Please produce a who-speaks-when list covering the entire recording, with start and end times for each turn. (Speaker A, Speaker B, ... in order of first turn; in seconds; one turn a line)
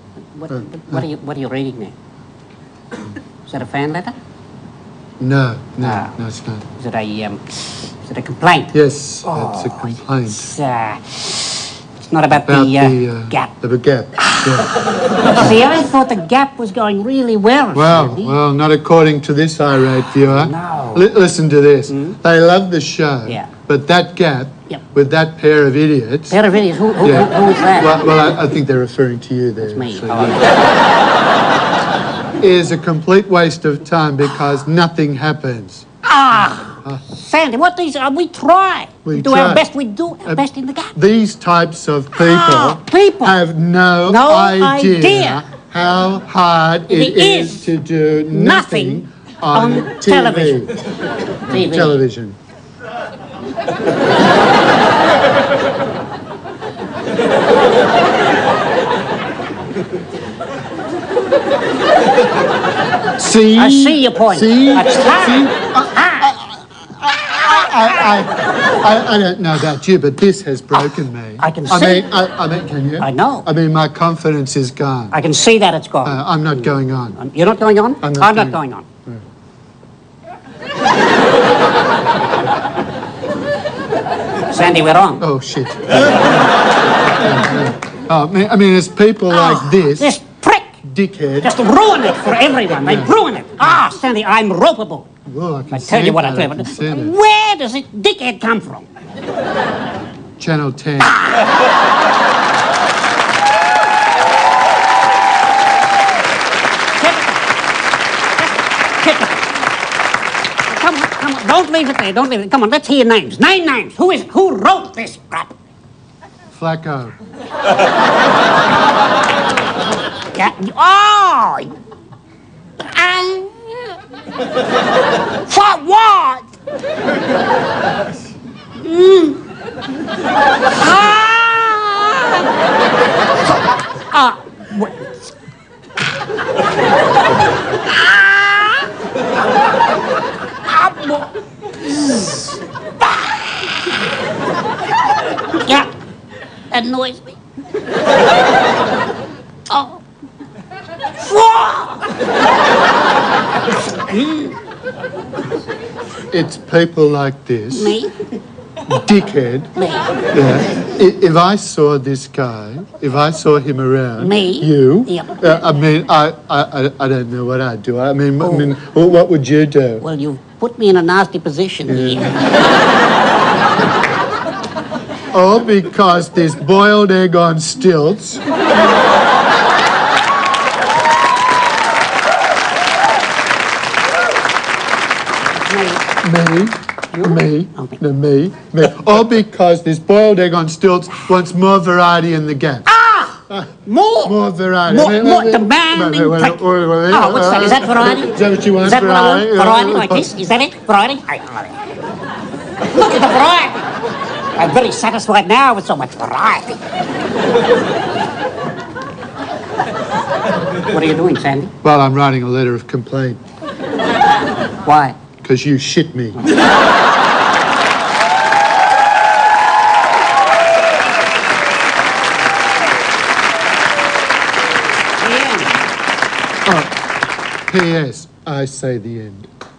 Speaker A: 0.3-1.9
Speaker B: 0.5-1.1
Speaker A: 3.5-4.1
Speaker B: 5.2-6.7
Speaker A: 5.8-6.2
Speaker A: 6.8-8.7
Speaker B: 8.7-10.5
Speaker A: 9.2-13.5
Speaker B: 12.4-14.8
Speaker A: 14.2-18.4
Speaker B: 17.7-26.4
Speaker A: 20.2-21.1
Speaker A: 21.9-22.2
Speaker A: 23.2-23.5
Speaker A: 26.3-28.1
Speaker B: 27.0-30.6
Speaker A: 29.6-30.6
Speaker B: 32.4-35.8
Speaker A: 36.0-41.0
Speaker B: 36.4-37.0
Speaker B: 39.0-39.7
Speaker B: 41.0-50.8
Speaker A: 42.1-43.4
Speaker A: 44.0-45.4
Speaker A: 46.9-47.7
Speaker A: 48.3-50.8
Speaker A: 51.5-52.0
Speaker B: 51.5-52.4
Speaker B: 63.2-75.2
Speaker A: 63.6-66.3
Speaker A: 70.8-72.1
Speaker A: 73.0-73.5
Speaker A: 75.1-78.9
Speaker B: 76.0-77.2
Speaker B: 78.0-79.2
Speaker A: 84.5-85.2
Speaker B: 85.2-86.5
Speaker B: 87.1-90.2
Speaker A: 89.3-90.8
Speaker B: 90.8-91.6
Speaker A: 91.4-95.1
Speaker B: 92.8-93.2
Speaker B: 95.2-97.2
Speaker A: 95.7-98.9
Speaker B: 100.4-101.2
Speaker A: 101.0-101.5
Speaker A: 107.0-107.4
Speaker A: 108.4-109.6
Speaker A: 110.7-115.5
Speaker B: 116.5-117.2
Speaker A: 120.3-121.7
Speaker A: 122.8-124.0
Speaker A: 125.5-126.5
Speaker A: 128.8-129.5
Speaker A: 130.8-132.5
Speaker A: 134.1-135.2
Speaker A: 137.8-138.9
Speaker A: 140.7-141.2
Speaker A: 141.8-142.4
Speaker A: 145.5-145.9
Speaker A: 146.7-147.3
Speaker A: 149.7-150.0
Speaker A: 151.2-152.1
Speaker A: 154.1-154.6
Speaker B: 156.3-158.0
Speaker A: 157.7-158.1
Speaker B: 158.9-159.7
Speaker A: 159.8-160.1
Speaker B: 160.3-170.0
Speaker A: 164.2-165.7
Speaker A: 168.4-168.7
Speaker A: 170.0-172.4
Speaker B: 171.9-172.4
Speaker B: 175.3-178.4
Speaker A: 185.5-186.1
Speaker B: 186.2-192.9
Speaker A: 187.1-188.0
Speaker A: 192.9-201.8
Speaker B: 194.2-200.3
Speaker A: 202.8-203.9
Speaker A: 204.6-206.8
Speaker A: 210.8-211.7
Speaker B: 211.8-213.4
Speaker A: 214.8-215.2
Speaker B: 215.4-216.4
Speaker A: 225.2-225.8
Speaker B: 226.7-226.9
Speaker B: 227.7-229.5